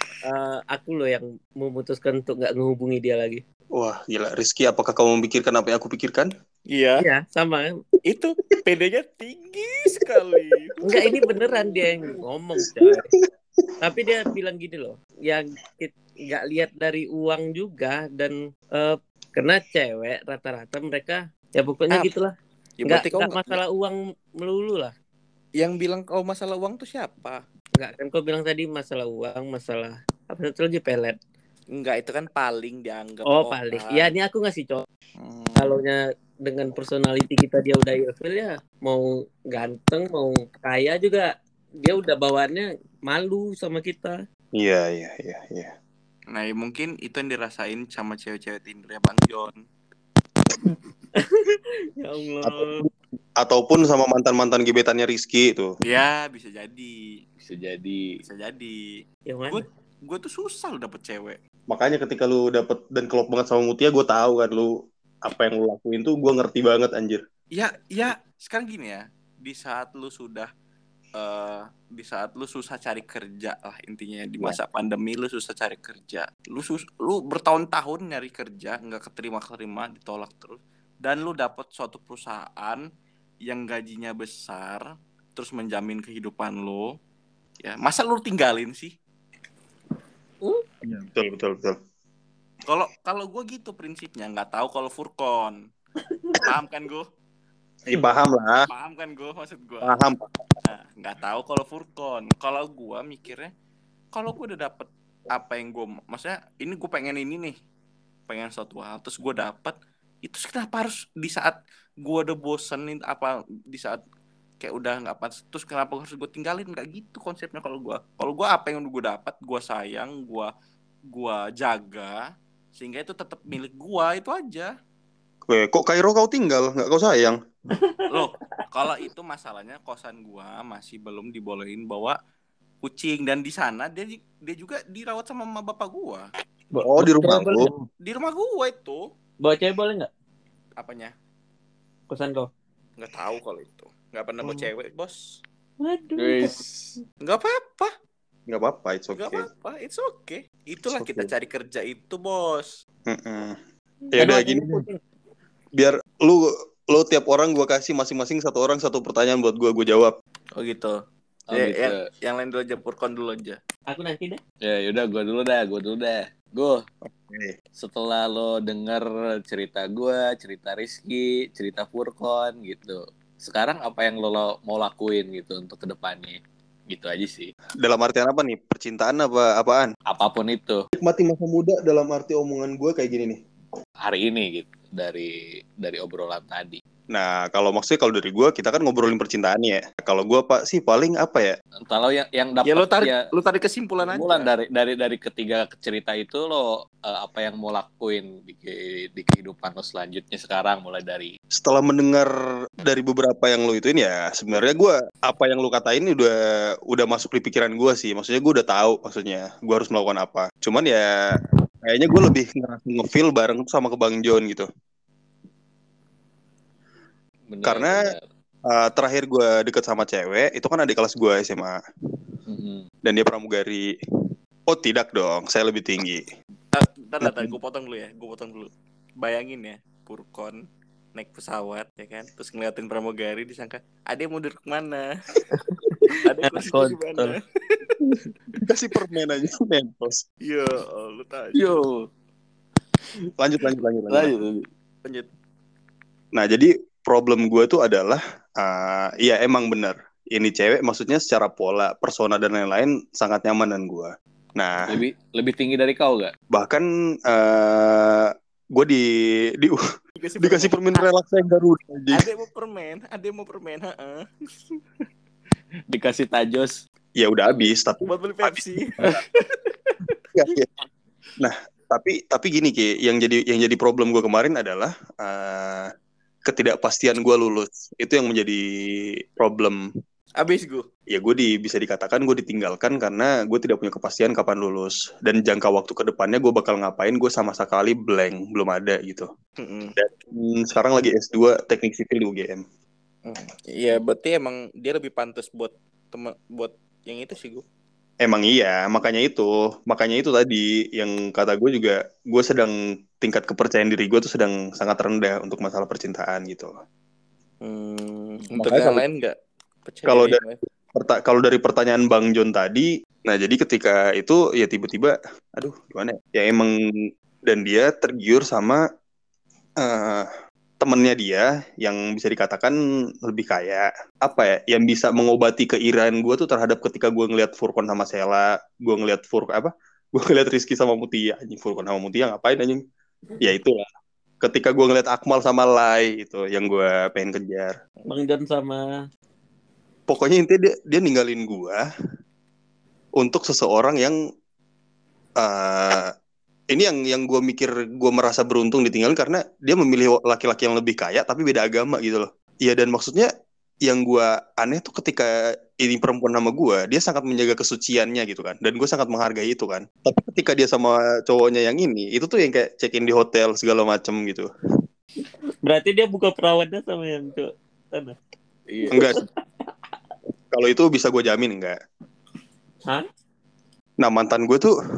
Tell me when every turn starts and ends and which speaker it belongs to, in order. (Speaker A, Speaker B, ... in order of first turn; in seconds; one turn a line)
Speaker A: 0.2-3.4
Speaker B: 3.7-6.3
Speaker C: 6.7-7.0
Speaker A: 7.0-7.7
Speaker C: 8.0-10.8
Speaker A: 10.8-13.1
Speaker B: 11.0-11.3
Speaker B: 12.6-12.9
Speaker A: 13.8-22.3
Speaker C: 22.8-23.6
Speaker A: 22.9-24.9
Speaker C: 25.6-27.4
Speaker A: 27.8-31.2
Speaker C: 31.7-34.1
Speaker A: 33.3-34.9
Speaker C: 35.2-35.8
Speaker A: 35.6-41.3
Speaker A: 41.8-44.1
Speaker B: 44.5-45.7
Speaker C: 46.3-49.6
Speaker A: 51.2-52.9
Speaker B: 52.4-52.9
Speaker B: 53.4-55.7
Speaker C: 55.8-57.0
Speaker D: 57.4-58.1
Speaker C: 58.2-59.0
Speaker A: 59.3-59.6
Speaker C: 59.5-61.4
Speaker B: 61.7-64.7
Speaker B: 65.2-67.2
Speaker C: 67.5-70.5
Speaker C: 71.2-82.8
Speaker C: 83.5-84.8
Speaker C: 85.3-86.9
Speaker C: 87.6-88.9
Speaker B: 90.8-91.8
Speaker C: 92.7-95.6
Speaker C: 96.4-97.0
Speaker B: 97.9-98.7
Speaker C: 98.7-99.9
Speaker B: 99.8-100.6
Speaker C: 100.6-103.5
Speaker C: 104.1-107.5
Speaker C: 108.3-114.0
Speaker C: 114.6-120.5
Speaker C: 121.1-122.2
Speaker C: 122.7-124.7
Speaker B: 125.5-127.4
Speaker A: 127.9-128.2
Speaker C: 128.1-132.2
Speaker C: 132.8-136.3
Speaker A: 136.7-137.8
Speaker B: 136.8-137.7
Speaker C: 138.0-139.1
Speaker A: 139.4-140.1
Speaker C: 140.8-141.1
Speaker A: 142.1-142.5
Speaker C: 143.0-145.4
Speaker A: 145.8-146.6
Speaker D: 146.2-146.9
Speaker C: 147.2-147.9
Speaker B: 148.5-149.5
Speaker C: 149.2-152.7
Speaker B: 150.9-151.3
Speaker B: 153.1-153.6
Speaker B: 154.1-154.8
Speaker A: 154.2-155.0
Speaker B: 155.7-160.1
Speaker C: 160.6-160.9
Speaker D: 161.5-162.0
Speaker C: 161.5-163.6
Speaker A: 163.9-164.4
Speaker D: 164.6-166.8
Speaker B: 167.0-167.5
Speaker D: 167.8-176.4
Speaker D: 176.9-177.5
Speaker B: 177.8-179.9
Speaker D: 180.1-180.8
Speaker B: 181.0-183.4
Speaker D: 184.0-186.8
Speaker B: 187.1-191.5
Speaker D: 191.8-193.2
Speaker C: 192.6-194.5
Speaker D: 194.0-201.3
Speaker B: 201.5-202.3
Speaker B: 202.8-206.3
Speaker B: 206.9-214.7
Speaker D: 217.5-218.2
Speaker B: 217.6-218.0
Speaker B: 218.7-221.8
Speaker D: 222.5-222.8
Speaker B: 223.0-223.9
Speaker B: 224.7-226.2
Speaker C: 226.7-228.7
Speaker B: 227.2-227.5
Speaker C: 229.2-230.6
Speaker C: 231.1-235.0
Speaker A: 235.5-237.3
Speaker C: 236.2-238.0
Speaker B: 238.6-240.2
Speaker C: 240.4-241.8
Speaker D: 241.5-242.1
Speaker B: 243.4-244.3
Speaker D: 244.1-244.6
Speaker B: 246.3-255.0
Speaker D: 254.9-256.3
Speaker B: 256.5-259.1
Speaker C: 260.2-261.1
Speaker B: 260.4-262.2
Speaker C: 262.1-264.8
Speaker D: 265.9-266.8
Speaker B: 267.2-268.1
Speaker C: 268.1-269.0
Speaker D: 269.0-269.9
Speaker B: 270.4-270.7
Speaker B: 271.4-275.9
Speaker B: 276.4-279.8
Speaker C: 280.4-280.9
Speaker B: 281.1-289.3
Speaker C: 289.6-289.9
Speaker B: 290.0-292.6
Speaker C: 293.2-297.6
Speaker B: 298.2-306.7
Speaker C: 307.6-309.3
Speaker B: 308.6-309.0
Speaker C: 309.9-310.6
Speaker B: 310.1-310.4
Speaker B: 310.9-316.7
Speaker B: 317.5-318.8
Speaker B: 319.8-320.3
Speaker B: 320.8-332.8
Speaker B: 333.4-333.8
Speaker B: 334.4-337.7
Speaker A: 338.1-338.8
Speaker B: 340.1-341.8
Speaker B: 343.2-344.1
Speaker B: 345.4-346.1
Speaker B: 346.7-353.3
Speaker B: 353.8-364.5
Speaker A: 365.6-368.1
Speaker D: 368.7-369.0
Speaker B: 368.9-369.2
Speaker A: 368.9-369.2
Speaker B: 370.5-371.8
Speaker B: 374.0-374.7